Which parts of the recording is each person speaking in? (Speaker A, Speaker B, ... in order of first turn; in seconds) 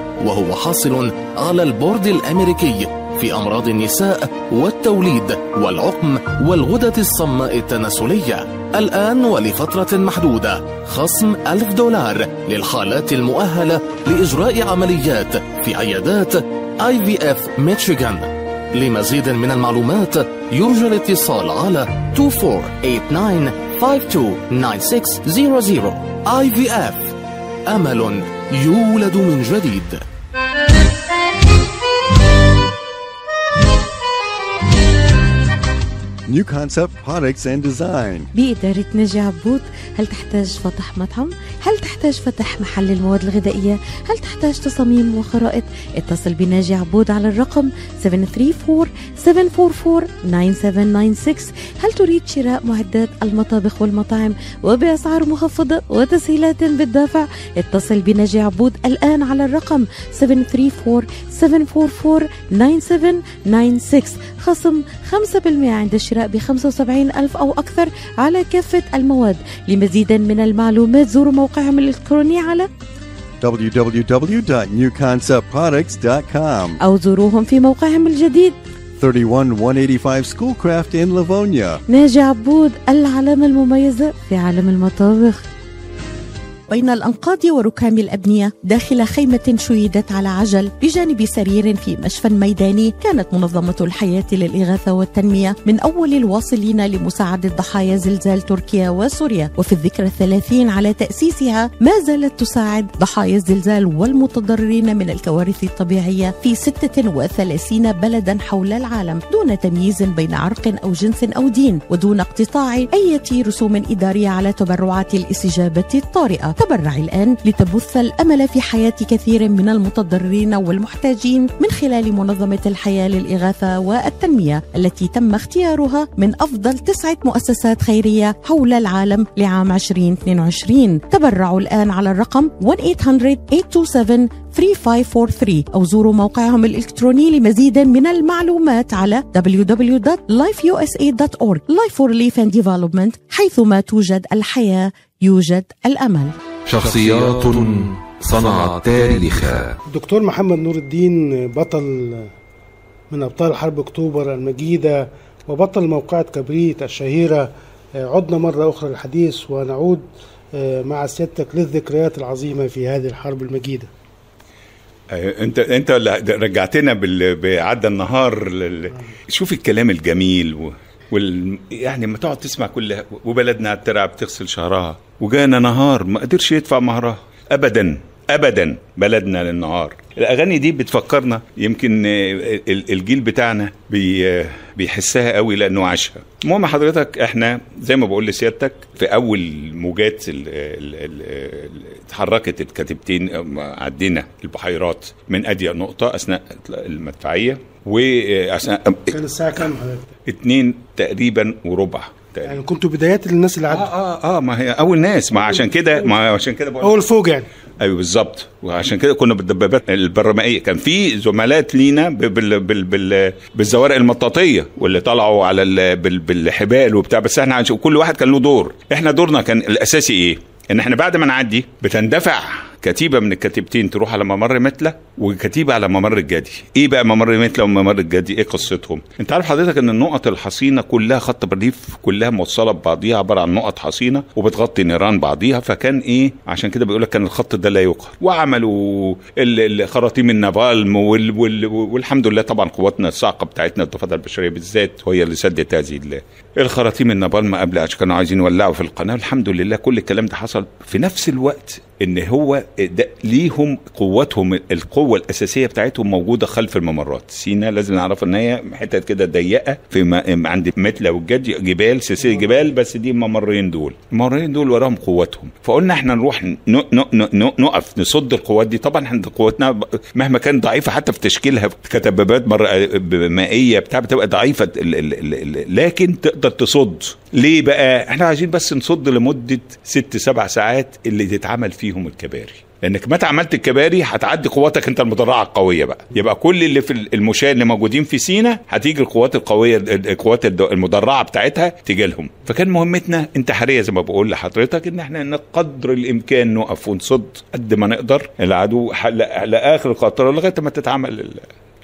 Speaker A: 0.2-27.2, 27.7-30.0
Speaker B: 36.3-38.3, 73.4-76.8, 79.0-81.8
Speaker C: 38.4-72.7, 76.8-78.6, 81.9-85.5, 86.7-146.3
Speaker D: 146.7-149.8
Speaker E: 149.9-152.3, 153.1-157.5, 158.0-163.9, 199.1-200.1, 202.4-203.9, 205.3-206.1, 206.8-207.5
Speaker F: 165.1-199.2, 200.3-202.6, 203.7-207.0, 207.8-301.5